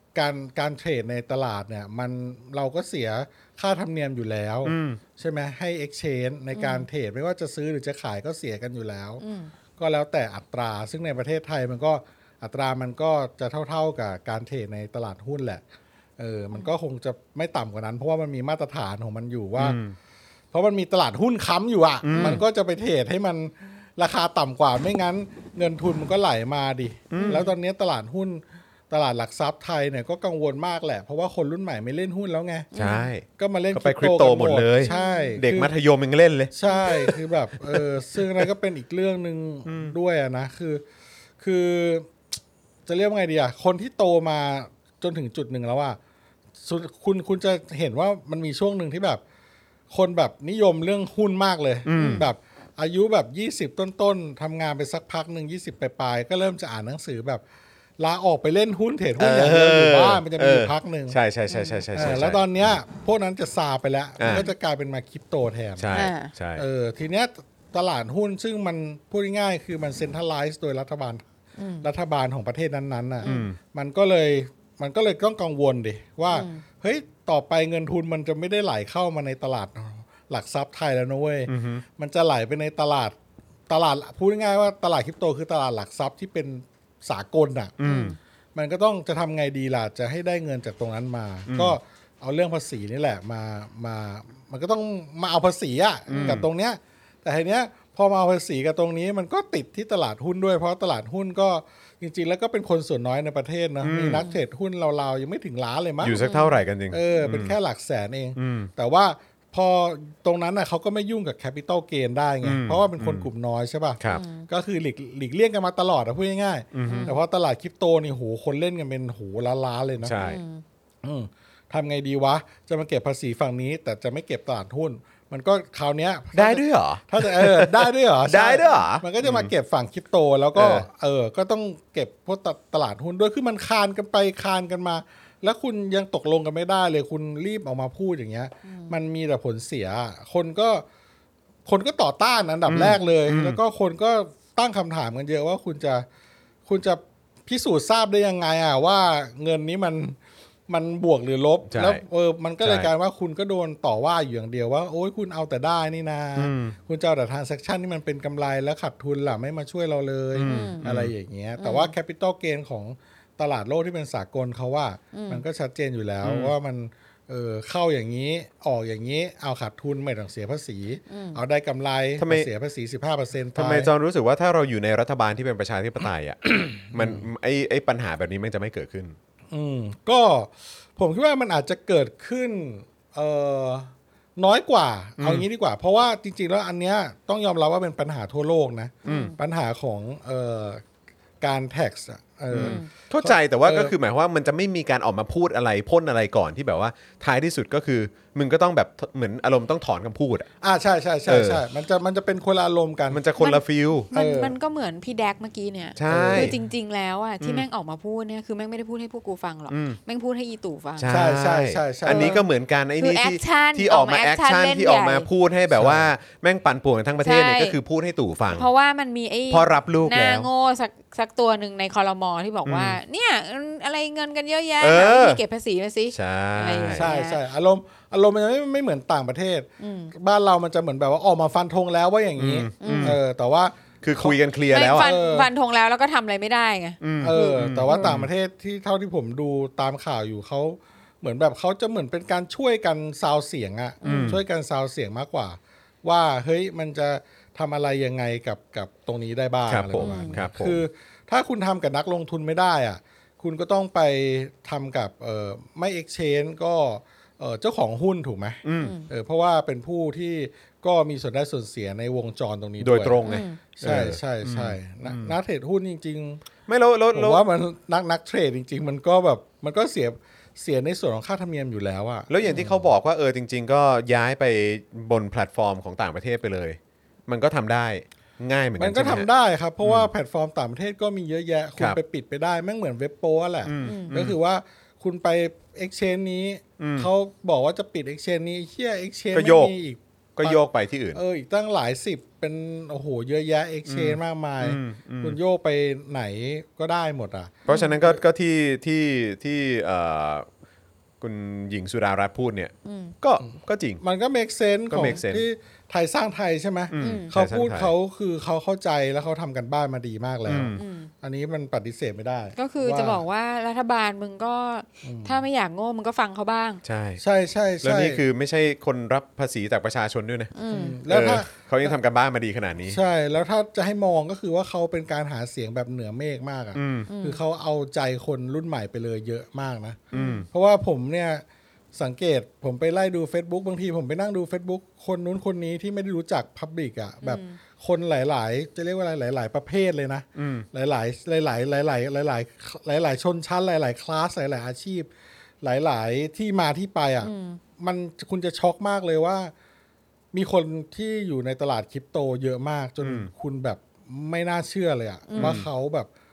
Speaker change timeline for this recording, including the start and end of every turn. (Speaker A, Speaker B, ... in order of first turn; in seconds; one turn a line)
Speaker A: 0.1-9.2
Speaker B: 4.6-5.0
Speaker C: 6.5-6.8
Speaker C: 9.2-9.5
Speaker A: 9.8-15.6
Speaker A: 16.2-19.8
Speaker B: 19.6-19.9
Speaker A: 20.5-32.7
Speaker B: 22.0-22.4
Speaker B: 27.1-27.4
Speaker C: 27.2-27.5
Speaker C: 32.7-33.1
Speaker B: 32.7-37.8
Speaker A: 33.3-35.7
Speaker C: 34.8-35.4
Speaker A: 36.5-40.8
Speaker B: 39.6-39.9
Speaker A: 41.4-42.1
Speaker A: 42.9-46.0
Speaker A: 46.6-49.2
Speaker A: 49.9-57.4
Speaker B: 51.9-52.2
Speaker C: 52.0-52.2
Speaker A: 58.0-61.2
Speaker B: 59.2-62.4
Speaker C: 61.5-61.8
Speaker A: 61.9-66.0
Speaker B: 65.8-66.6
Speaker C: 65.9-66.3
Speaker A: 66.5-71.2
Speaker C: 71.6-71.8
Speaker A: 71.8-83.2
Speaker C: 73.2-73.5
Speaker B: 73.2-73.6
Speaker C: 76.3-76.6
Speaker B: 81.5-81.8
Speaker A: 83.7-87.8
Speaker B: 87.8-88.1
Speaker C: 87.8-88.2
Speaker A: 88.5-106.2
Speaker B: 91.5-91.8
Speaker C: 96.1-96.4
Speaker B: 96.1-96.4
Speaker B: 103.8-104.2
Speaker C: 104.1-104.4
Speaker B: 106.0-107.5
Speaker C: 106.2-106.6
Speaker A: 106.9-120.2
Speaker B: 108.3-108.7
Speaker B: 112.4-113.3
Speaker C: 114.1-114.5
Speaker B: 116.7-117.1
Speaker C: 116.8-117.2
Speaker B: 120.0-120.4
Speaker C: 120.2-120.6
Speaker A: 121.0-140.8
Speaker B: 126.3-129.5
Speaker B: 130.5-130.8
Speaker C: 138.7-138.9
Speaker A: 141.6-146.1
Speaker B: 142.7-143.6
Speaker A: 146.7-150.2
Speaker A: 150.7-173.9
Speaker B: 151.7-152.0
Speaker B: 152.6-152.9
Speaker B: 156.3-156.8
Speaker B: 160.3-161.1
Speaker C: 160.4-160.8
Speaker C: 161.6-161.9
Speaker C: 165.1-165.4
Speaker B: 166.2-166.5
Speaker C: 171.1-171.4
Speaker B: 172.2-172.5
Speaker B: 173.5-179.2
Speaker A: 176.9-177.2
Speaker A: 179.5-190.8
Speaker B: 185.2-185.4
Speaker C: 189.0-189.3
Speaker B: 189.1-189.3
Speaker A: 191.4-193.9
Speaker B: 192.5-200.5
Speaker C: 192.6-192.9
Speaker A: 200.6-203.2
Speaker B: 201.3-201.6
Speaker B: 203.1-204.1
Speaker C: 203.4-211.0
Speaker A: 204.1-204.5
Speaker B: 205.9-206.5
Speaker A: 206.1-206.6
Speaker B: 207.4-207.7
Speaker B: 209.7-210.0
Speaker B: 211.0-218.7
Speaker A: 211.1-212.4
Speaker C: 212.1-212.4
Speaker C: 213.0-215.3
Speaker A: 215.7-216.1
Speaker C: 217.2-217.8
Speaker C: 218.5-227.4
Speaker B: 219.5-220.5
Speaker B: 222.7-223.0
Speaker B: 224.8-225.4
Speaker B: 226.1-227.1
Speaker A: 226.9-234.3
Speaker C: 229.8-230.1
Speaker B: 232.4-233.2
Speaker C: 232.8-233.2
Speaker B: 234.0-235.1
Speaker C: 234.7-238.1
Speaker A: 234.9-235.5
Speaker B: 237.0-238.3
Speaker A: 237.2-263.2
Speaker C: 244.0-244.4
Speaker B: 244.0-244.4
Speaker B: 249.7-250.8
Speaker C: 250.0-250.3
Speaker B: 258.6-258.9
Speaker C: 258.8-259.1
Speaker B: 262.8-265.3
Speaker C: 263.2-263.6
Speaker A: 263.8-266.4
Speaker B: 266.7-267.4
Speaker A: 267.1-272.8
Speaker B: 272.3-279.3
Speaker A: 278.8-290.6
Speaker B: 279.8-280.1
Speaker B: 283.6-284.4
Speaker C: 283.8-284.1
Speaker B: 286.8-287.1
Speaker B: 289.3-289.7
Speaker B: 290.4-291.2
Speaker A: 291.1-298.2
Speaker B: 293.9-295.4
Speaker B: 297.7-300.5
Speaker C: 297.7-297.9
Speaker B: 301.2-304.0
Speaker C: 302.8-303.1
Speaker A: 304.0-313.2
Speaker B: 304.9-305.4
Speaker B: 306.9-307.9
Speaker C: 307.0-307.3
Speaker B: 310.4-310.8
Speaker C: 310.7-311.1
Speaker C: 312.6-316.8
Speaker A: 315.0-315.4
Speaker B: 316.8-317.2
Speaker A: 317.2-318.2
Speaker B: 317.8-320.5
Speaker C: 320.5-321.0
Speaker A: 320.7-321.9
Speaker B: 321.1-323.0
Speaker A: 322.9-345.1
Speaker B: 326.7-327.1
Speaker C: 327.1-327.4
Speaker C: 330.1-330.4
Speaker B: 330.1-330.4
Speaker C: 337.2-337.5
Speaker B: 340.4-340.6
Speaker A: 345.6-349.5
Speaker C: 347.2-347.6
Speaker A: 350.3-356.1
Speaker B: 353.0-353.3
Speaker C: 355.3-355.6
Speaker B: 355.4-355.6